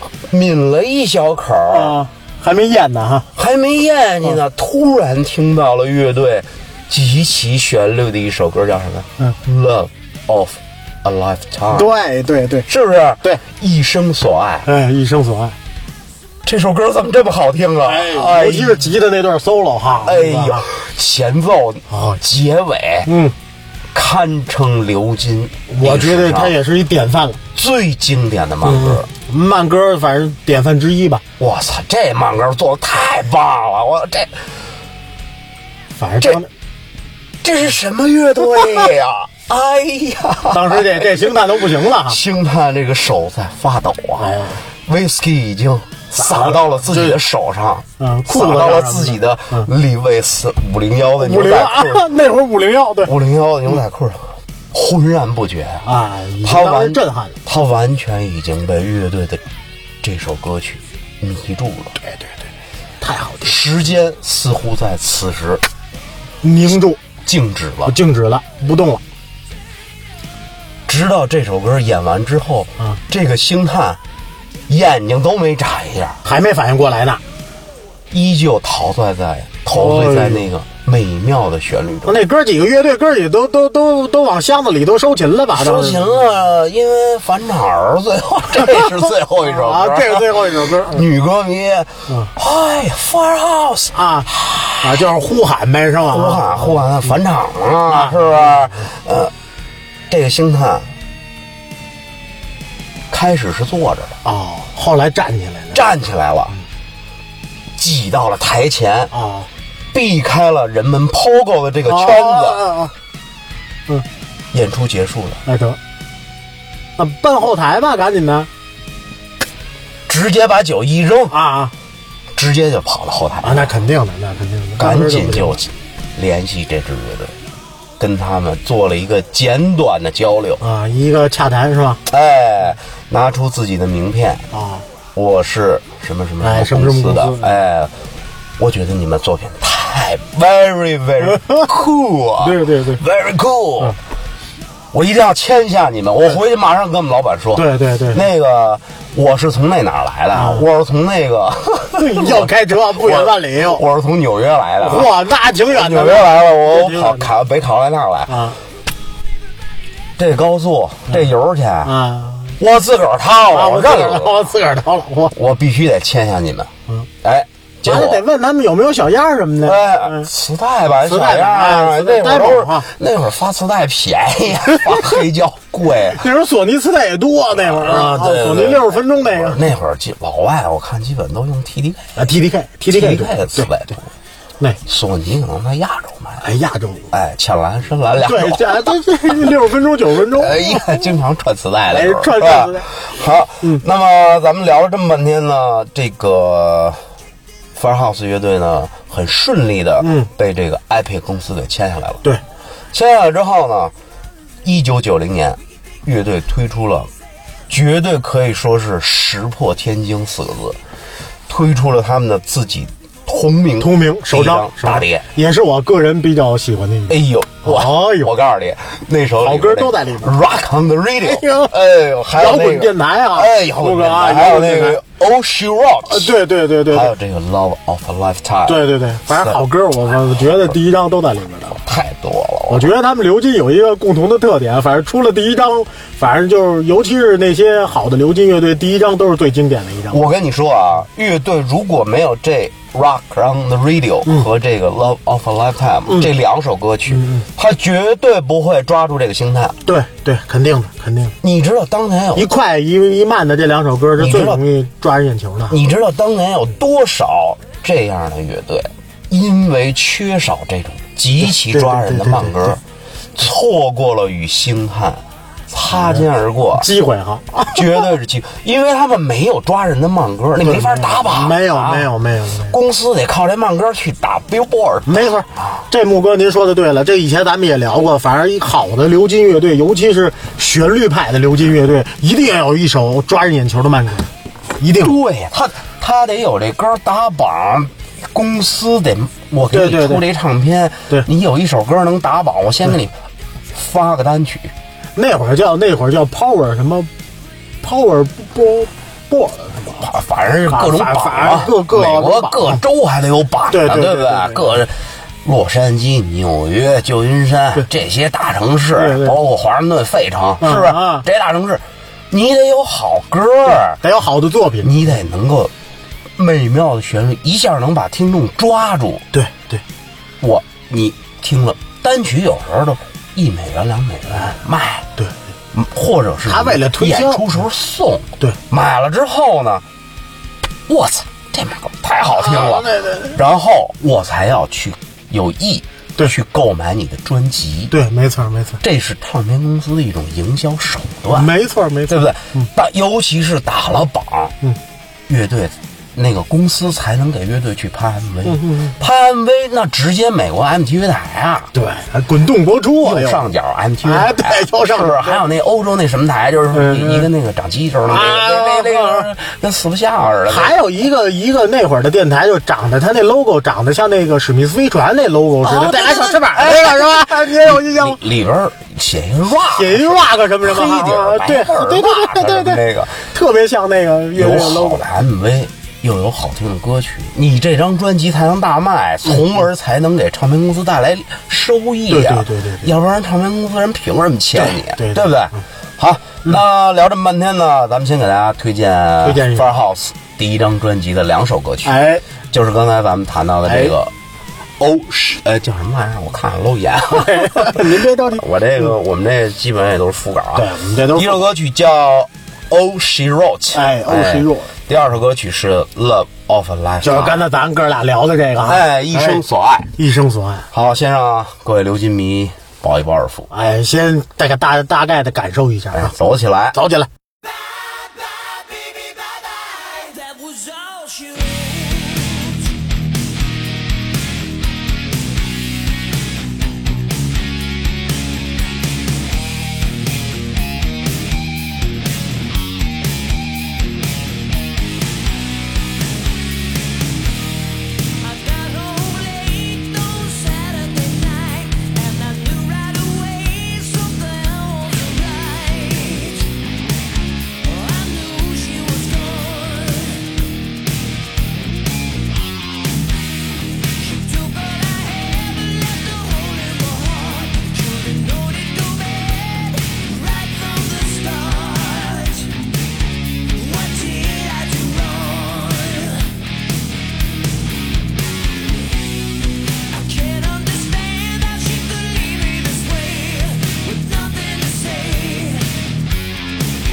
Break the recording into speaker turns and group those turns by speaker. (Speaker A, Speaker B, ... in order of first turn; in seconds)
Speaker A: 0.3-1.9, 3.4-11.9, 12.7-14.7, 16.4-18.9, 20.0-23.1, 23.9-26.6, 27.5-29.1, 31.4-34.5, 37.4-52.1, 53.0-55.9, 56.4-59.4, 60.0-62.0, 63.4-65.6, 67.2-67.9, 70.9-74.0, 74.7-76.2, 78.1-82.2, 85.5-95.0, 96.1-99.3, 100.1-100.9, 103.1-104.2, 105.7-106.5, 107.8-109.1, 109.9-112.7, 114.5-115.4, 120.1-121.3, 122.3-123.7, 124.8-127.3, 128.0-130.6, 132.1-134.5, 135.1-137.9, 138.6-144.0, 144.9-155.1, 155.7-158.3, 160.2-161.9, 162.6-164.5, 165.3-166.7, 167.2-168.2, 169.6-176.2, 177.5-182.2, 182.9-184.0, 184.8-186.4, 187.1-188.9, 190.3-197.0, 197.7-202.2, 202.9-203.9, 204.6-207.1, 207.7-210.8, 211.5-215.3, 217.1-226.3, 226.9-229.6, 231.8-232.9, 240.1-249.8, 251.4-252.5, 254.2-254.6, 255.7-262.8, 263.3-266.9, 267.7-272.1, 272.7-275.7, 285.0-293.1, 293.7-294.7, 300.0-314.0, 314.8-315.7, 316.4-319.2, 320.4-325.1, 325.7-329.8, 330.9-337.9, 338.8-341.5, 342.1-344.6, 345.3-351.7, 353.0-360.7, 365.6-373.2, 374.3-391.9, 392.5-394.1, 394.8-407.4, 408.6-409.9, 410.7-413.5, 415.9-416.8
Speaker B: 1.7-3.3, 11.7-12.7, 14.6-15.6, 17.8-20.6, 21.9-22.2, 23.1-23.3, 25.7-27.4, 28.6-31.2, 35.9-36.5, 40.5-42.2, 44.2-44.6, 46.1-47.2, 48.0-49.7, 51.2-53.1, 55.8-57.4, 63.0-63.6, 66.4-67.0, 67.8-69.0, 76.2-77.2, 79.7-80.4, 82.0-86.2, 89.4-91.0, 93.9-94.3, 94.8-96.8, 97.9-98.9, 104.2-105.8, 109.1-109.5, 111.9-112.9, 115.5-115.8, 117.0-118.5, 121.3-121.7, 123.4-125.6, 130.6-132.0, 134.5-134.8, 136.4-137.5, 141.2-141.7, 142.4-143.0, 147.5-148.2, 150.3-150.7, 151.9-153.8, 154.8-157.3, 158.3-158.6, 161.8-162.6, 163.5-165.3, 167.8-170.3, 171.0-172.9, 176.1-179.6, 182.2-183.7, 186.4-187.1, 188.2-190.9, 191.9-192.9, 200.0-200.3, 213.8-218.3, 219.4-220.3, 221.2-221.7, 222.3-225.0, 226.1-227.1, 228.7-231.8, 232.7-240.2, 247.1-247.4, 249.8-251.3, 252.3-255.8, 261.4-262.8, 265.9-268.1, 270.6-272.8, 275.1-285.1, 289.7-290.2, 295.1-297.1, 297.8-300.1, 300.6-302.8, 303.7-304.8, 308.9-309.4, 310.6-311.2, 314.0-315.1, 319.3-319.8, 326.4-327.4, 332.3-333.4, 337.9-338.8, 341.3-342.7, 348.4-348.9, 351.7-353.4, 354.0-355.4, 356.7-357.3, 358.0-359.3, 360.5-368.2, 369.7-375.0, 382.1-382.9, 384.6-385.3, 389.2-389.7, 391.8-392.2, 393.6-393.9, 397.1-398.4, 400.5-401.4, 403.7-404.7, 407.0-409.4, 410.0-410.7, 413.5-417.1
Speaker C: 417.5-422.7, 438.2-446.5, 447.6-450.3, 453.9-462.6, 463.5-466.3, 469.9-475.9